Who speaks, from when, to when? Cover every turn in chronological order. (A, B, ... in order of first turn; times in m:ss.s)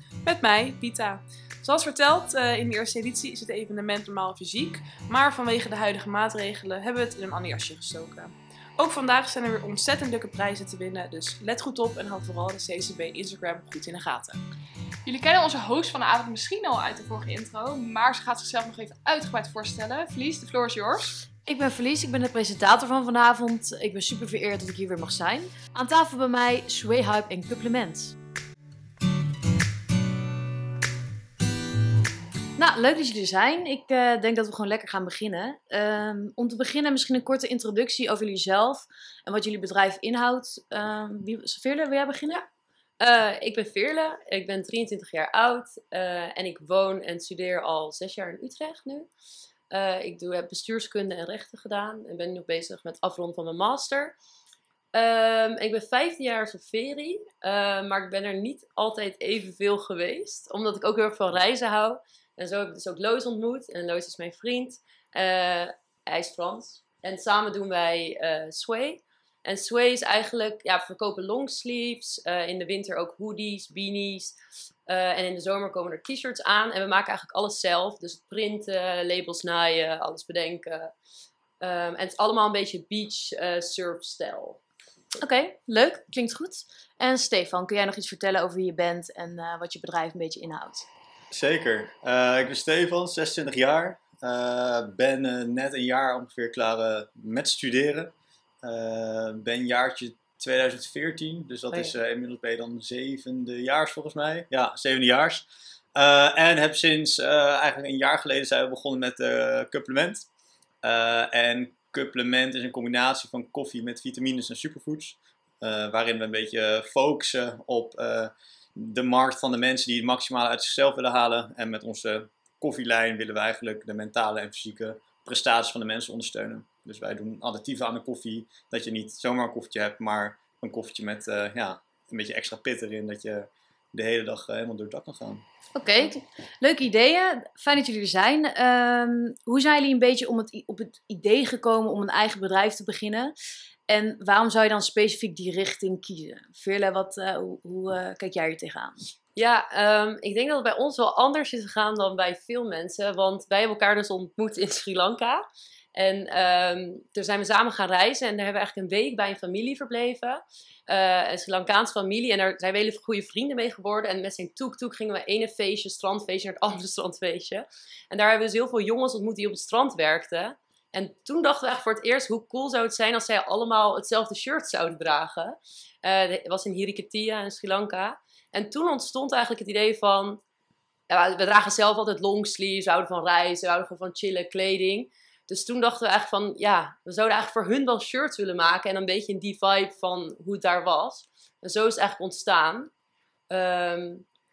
0:00.2-0:14.4 A
0:15.0-0:21.2 B
0:21.5-0:28.2 C
0:32.6-0:42.5 C
0:43.0-0:49.1 D
0:49.7-0:54.1 D
0:54.9-1:14.4 D
1:14.9-1:20.9 D
1:21.6-1:24.6 D
1:25.2-1:30.9 C
1:31.3-1:45.4 E
1:46.0-1:50.3 E
1:50.8-2:15.4 E
2:15.8-2:23.3 C
2:23.9-2:29.0 C
2:29.4-3:00.4 D
3:01.1-3:12.9 D
3:13.5-3:14.2 D